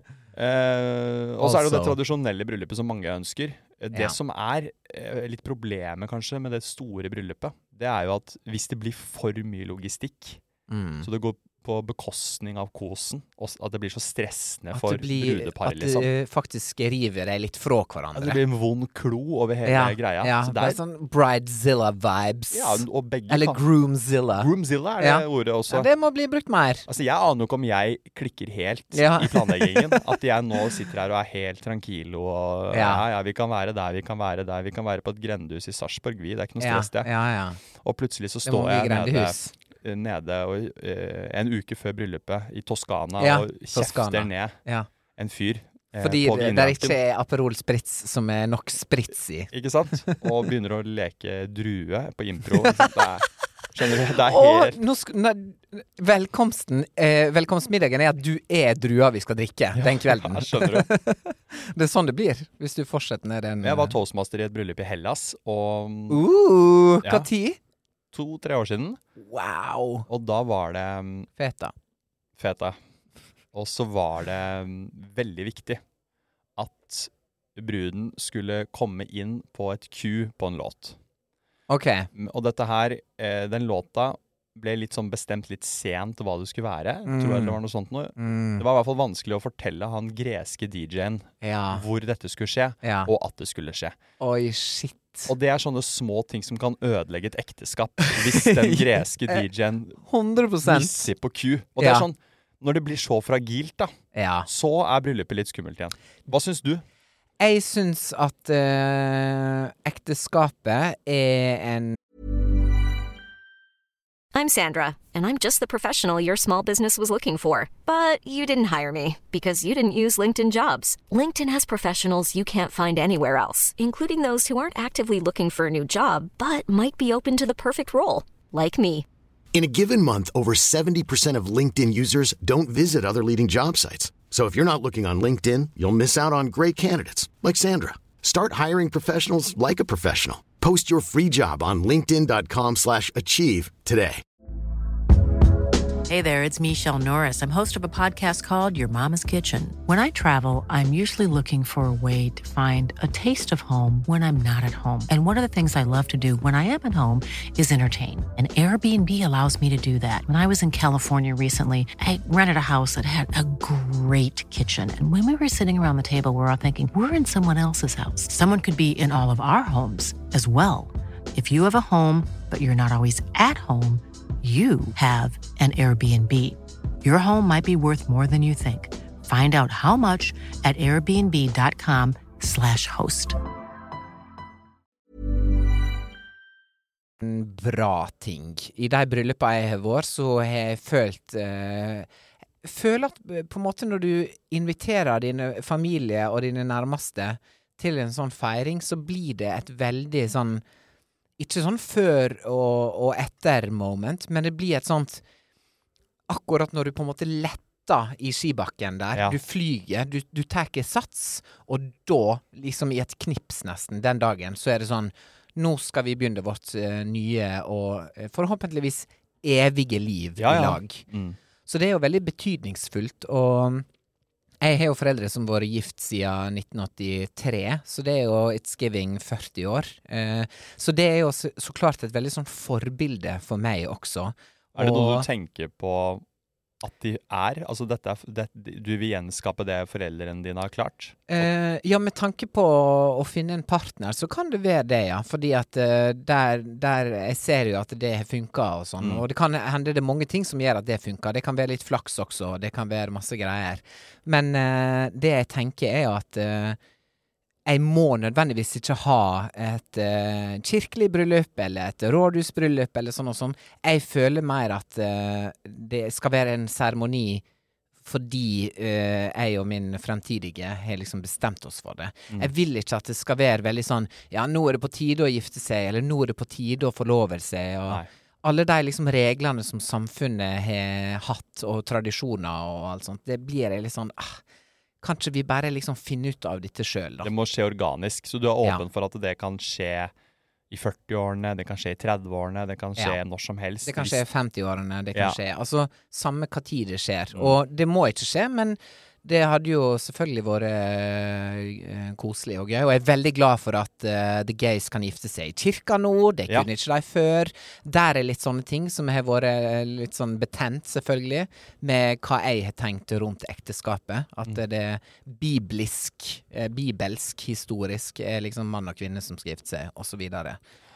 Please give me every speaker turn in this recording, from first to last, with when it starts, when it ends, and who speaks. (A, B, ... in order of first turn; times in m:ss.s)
0:00.3-0:10.4 A
0:01.4-0:02.0 B
0:03.9-0:04.2 B
0:10.7-0:11.1 B
0:11.0-0:16.1 A
0:14.7-0:18.4 B
0:18.1-0:20.8 A
0:19.6-0:26.8 B
0:22.5-0:23.6 A
0:24.3-0:25.9 A
0:26.9-0:37.1 A
0:28.9-0:30.2 B
0:32.7-0:33.0 B
0:36.6-0:37.6 B
0:37.7-0:44.6 A
0:38.4-0:39.5 B
0:43.2-0:44.9 B
0:45.1-0:47.0 A
0:46.0-0:50.2 B
0:49.5-0:54.8 A
0:52.6-0:52.9 B
0:54.2-1:04.0 B
0:59.8-1:00.9 A
1:03.6-1:06.2 A
1:06.1-1:07.6 B
1:08.1-1:09.0 A
1:09.2-1:10.1 B
1:10.1-1:11.3 A
1:11.4-1:11.7 B
1:12.4-1:12.8 A
1:13.5-1:15.8 A
1:16.6-1:21.0 A
1:21.7-1:22.1 B
1:22.1-1:34.0 A
1:27.0-1:27.6 B
1:28.2-1:28.6 B
1:31.4-1:31.8 B
1:32.8-1:33.1 B
1:34.2-1:35.3 B
1:35.3-1:40.0 A
1:38.0-1:39.4 B
1:40.0-1:41.1 B
1:40.6-1:43.9 A
1:41.8-1:42.1 B
1:44.1-1:44.5 B
1:44.4-1:46.8 A
1:47.4-1:52.0 B
1:54.3-2:09.0 C
2:09.5-2:24.2 D
2:26.1-3:03.4 E
3:07.2-3:12.1 B
3:12.6-3:20.6 B
3:21.4-3:25.2 B
3:26.3-3:41.0 B
3:40.4-3:41.4 A
3:41.7-3:43.8 B
3:44.6-3:55.3 B
3:54.7-3:56.2 A
3:56.8-4:01.5 A
4:01.3-4:16.8 B
4:09.0-4:09.2 A
4:17.6-4:27.4 B
4:28.0-4:44.4 B
4:45.0-4:47.3 B
4:47.2-4:50.1 A
4:50.7-4:54.2 A
4:53.8-5:20.6 B
4:57.3-4:57.6 A